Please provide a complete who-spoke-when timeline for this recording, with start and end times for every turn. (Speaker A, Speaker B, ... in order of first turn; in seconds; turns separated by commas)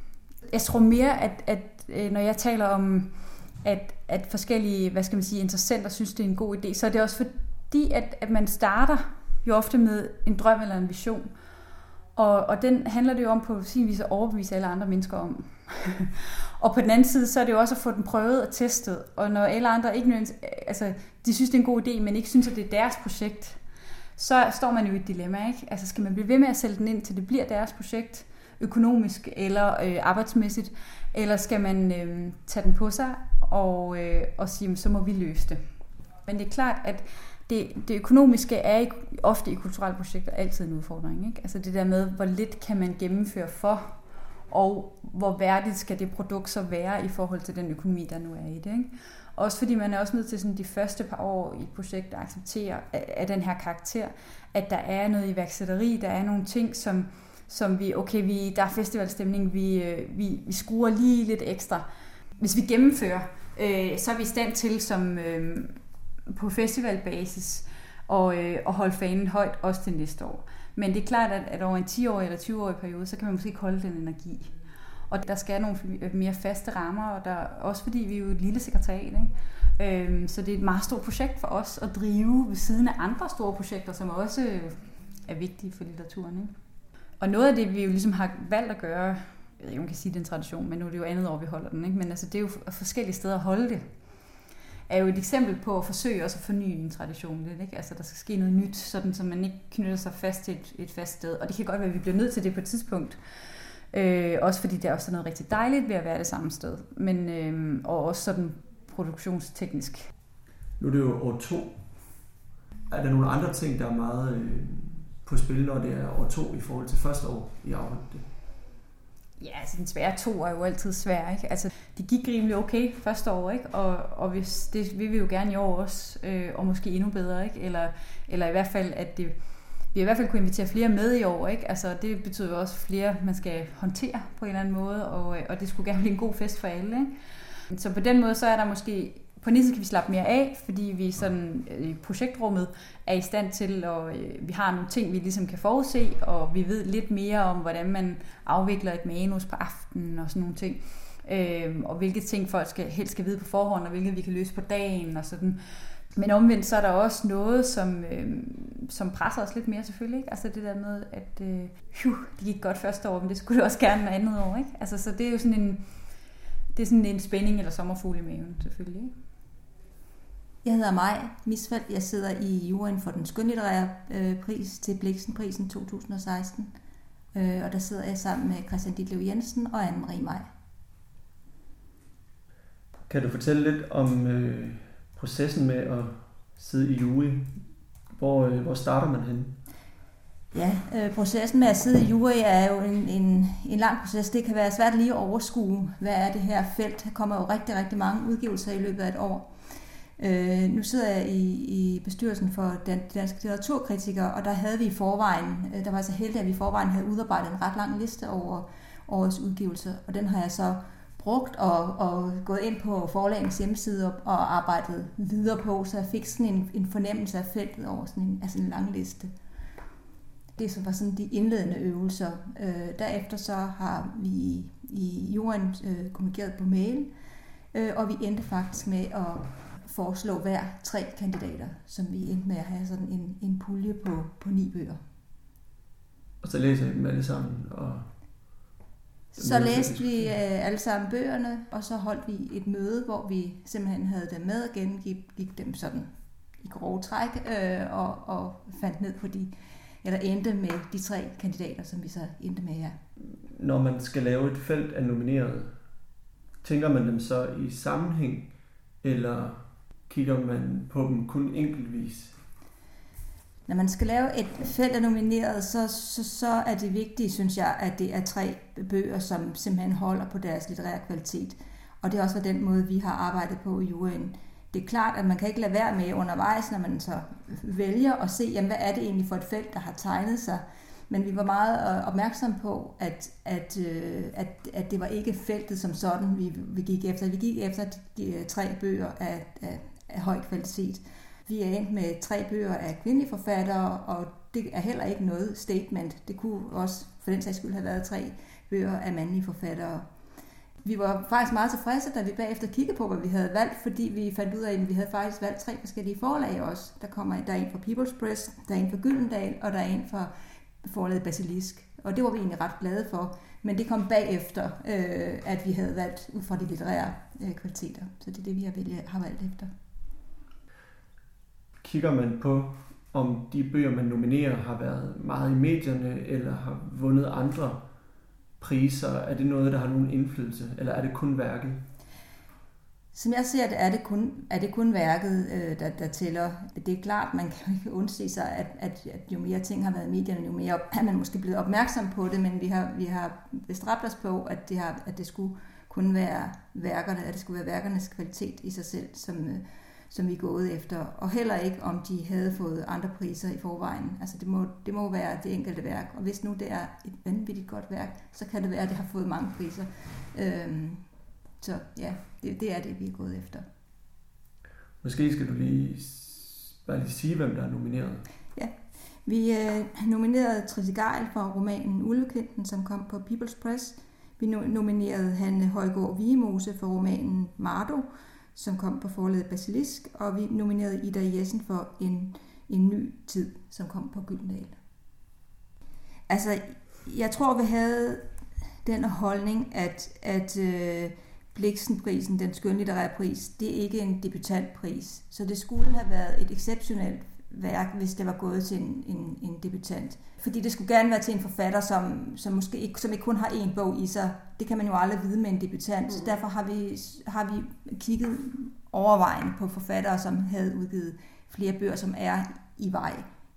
Speaker A: 0.5-11.3, Speaker A: 12.1-23.6, Speaker A: 24.1-35.6, Speaker A: 36.2-86.5, Speaker A: 87.2-110.1, Speaker B: 110.8-112.3, Speaker B: 112.9-118.2, Speaker A: 119.4-169.1, Speaker C: 170.6-176.7, Speaker C: 177.3-180.5, Speaker B: 183.1-187.6, Speaker B: 188.1-189.6, Speaker C: 190.5-219.3, Speaker C: 220.6-227.1, Speaker C: 227.7-235.0, Speaker B: 236.4-238.8, Speaker C: 239.3-249.5, Speaker B: 239.4-240.4, Speaker C: 250.0-253.0, Speaker B: 253.5-255.8, Speaker B: 256.6-262.4, Speaker C: 263.7-300.1, Speaker C: 300.8-319.7, Speaker B: 321.8-327.9, Speaker B: 328.6-331.8, Speaker C: 333.1-361.1, Speaker C: 361.6-363.6, Speaker B: 365.0-368.3, Speaker C: 368.5-384.8, Speaker C: 386.3-388.2, Speaker C: 388.8-413.3